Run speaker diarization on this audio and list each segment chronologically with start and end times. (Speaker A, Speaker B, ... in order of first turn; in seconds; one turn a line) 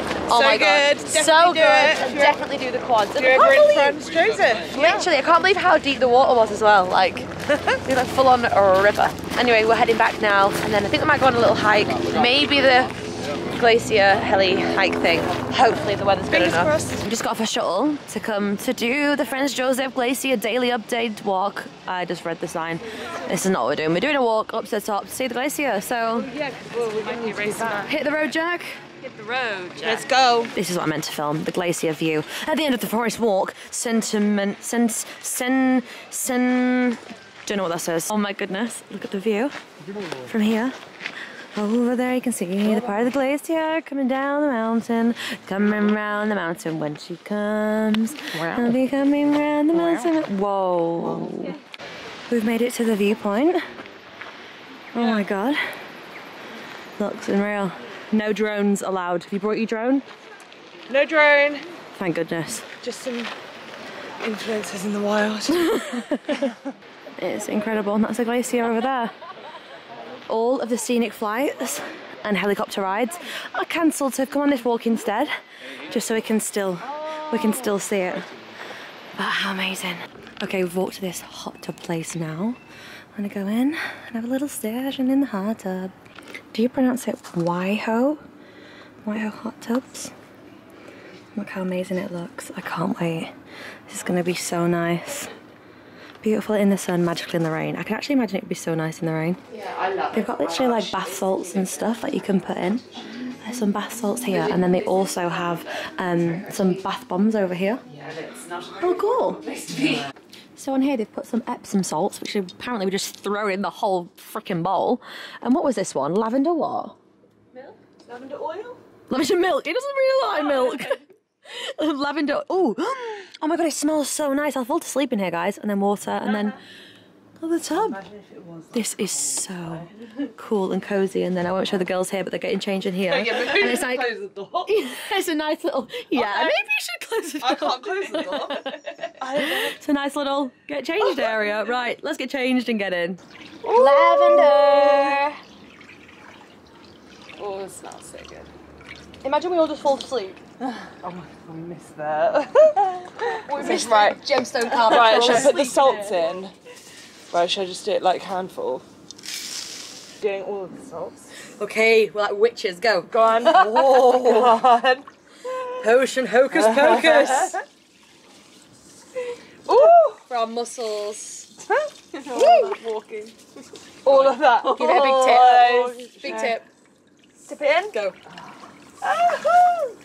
Speaker A: 0.3-4.0
Speaker B: 0.3-2.4
Speaker B: 3.1-5.0
Speaker A: 4.7-7.3
Speaker A: 7.8-12.9
Speaker A: 13.5-26.3
Speaker B: 16.3-17.0
Speaker B: 26.3-27.9
Speaker A: 27.9-28.8
Speaker B: 29.8-30.5
Speaker A: 30.5-39.5
Speaker A: 40.3-40.8
Speaker A: 41.5-51.6
Speaker B: 48.4-48.7
Speaker A: 52.3-53.6
Speaker A: 54.9-55.6
Speaker A: 57.0-60.0
Speaker B: 60.9-61.6
Speaker A: 62.0-62.7
Speaker B: 62.8-63.3
Speaker B: 64.2-65.7
Speaker A: 65.5-66.3
Speaker A: 67.2-69.1
Speaker A: 70.3-75.3
Speaker A: 75.9-78.3
Speaker A: 79.2-82.6
Speaker A: 83.1-85.9
Speaker A: 86.5-88.2
Speaker A: 89.0-90.1
Speaker A: 91.3-93.3
Speaker A: 93.9-95.3
Speaker A: 96.2-99.4
Speaker B: 99.5-102.0
Speaker A: 100.1-102.8
Speaker A: 103.4-107.8
Speaker B: 104.5-104.8
Speaker B: 107.9-110.0
Speaker A: 108.8-109.4
Speaker A: 110.6-117.0
Speaker B: 117.6-118.8
Speaker A: 119.1-126.6
Speaker A: 127.4-128.0
Speaker B: 127.7-129.4
Speaker A: 128.7-145.4
Speaker B: 133.1-134.7
Speaker B: 136.1-136.6
Speaker B: 137.4-139.7
Speaker B: 141.0-141.6
Speaker B: 143.6-145.2
Speaker B: 147.4-148.5
Speaker A: 149.2-150.4
Speaker B: 151.0-156.5
Speaker A: 153.5-155.7
Speaker B: 157.3-158.8
Speaker B: 160.2-161.3
Speaker A: 161.6-164.6
Speaker B: 163.1-165.0
Speaker A: 165.8-167.6
Speaker B: 166.5-167.6
Speaker B: 169.7-170.2
Speaker A: 169.7-171.5
Speaker B: 172.2-173.3
Speaker A: 172.3-172.7
Speaker B: 174.0-176.6
Speaker A: 174.1-176.6
Speaker B: 177.5-177.9
Speaker B: 179.0-179.9